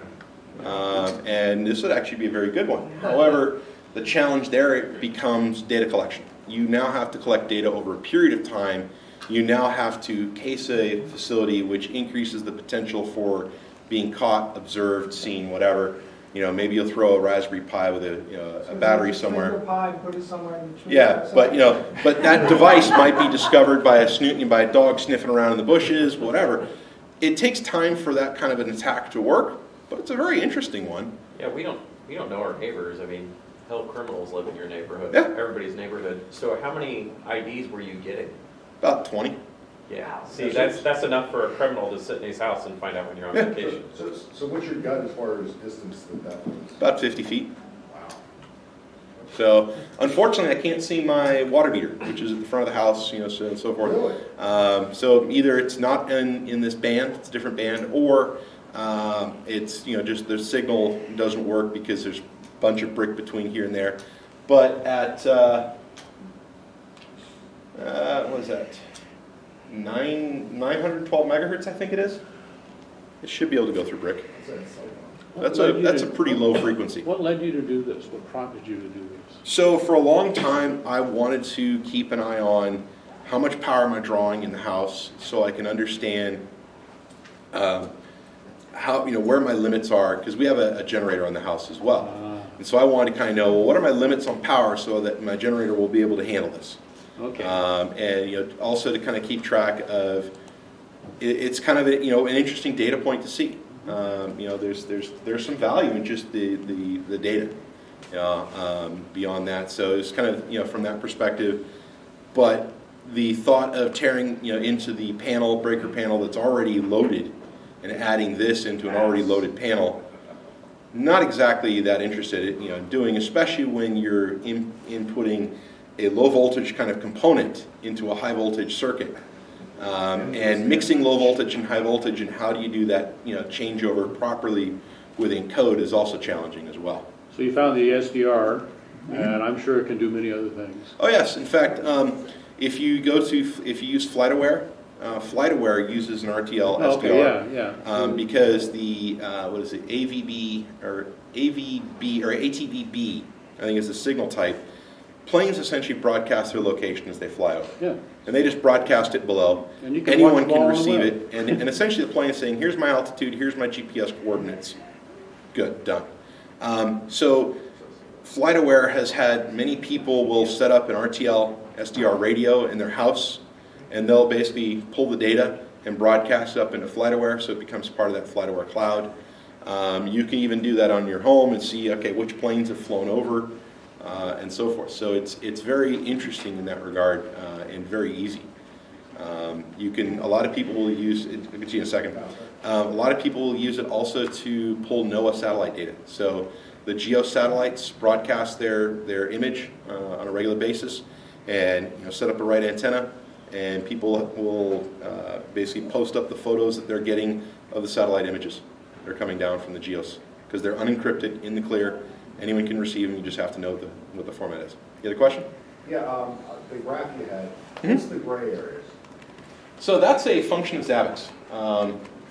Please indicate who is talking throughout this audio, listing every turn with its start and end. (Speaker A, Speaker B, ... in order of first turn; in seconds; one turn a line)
Speaker A: 0.6-19.6
Speaker B: 18.6-21.9
Speaker A: 20.9-26.7
Speaker A: 27.2-31.1
Speaker C: 31.4-38.3
Speaker A: 38.8-39.4
Speaker C: 39.9-44.0
Speaker D: 40.4-40.7
Speaker D: 43.6-46.8
Speaker A: 46.8-47.5
Speaker D: 47.9-48.2
Speaker A: 49.3-65.7
Speaker D: 53.8-54.2
Speaker A: 67.7-68.9
Speaker A: 69.7-72.2
Speaker A: 73.2-74.3
Speaker D: 74.3-75.3
Speaker E: 75.3-79.4
Speaker A: 75.4-77.1
Speaker A: 79.4-86.4
Speaker A: 87.5-87.9
Speaker A: 88.7-96.8
Speaker E: 92.0-92.5
Speaker E: 97.2-97.6
Speaker A: 97.4-100.3
Speaker A: 101.2-107.6
Speaker A: 108.1-111.7
Speaker A: 112.3-120.0
Speaker A: 120.9-129.2
Speaker A: 129.8-137.1
Speaker E: 137.3-140.9
Speaker A: 141.0-154.6
Speaker E: 146.8-148.2
Speaker A: 155.2-164.8
Speaker E: 159.8-161.6
Speaker A: 165.5-166.1
Speaker A: 166.6-167.6
Speaker A: 168.2-179.1
Speaker A: 179.6-188.5
Speaker A: 189.2-215.5
Speaker D: 215.8-218.9
Speaker A: 219.8-222.0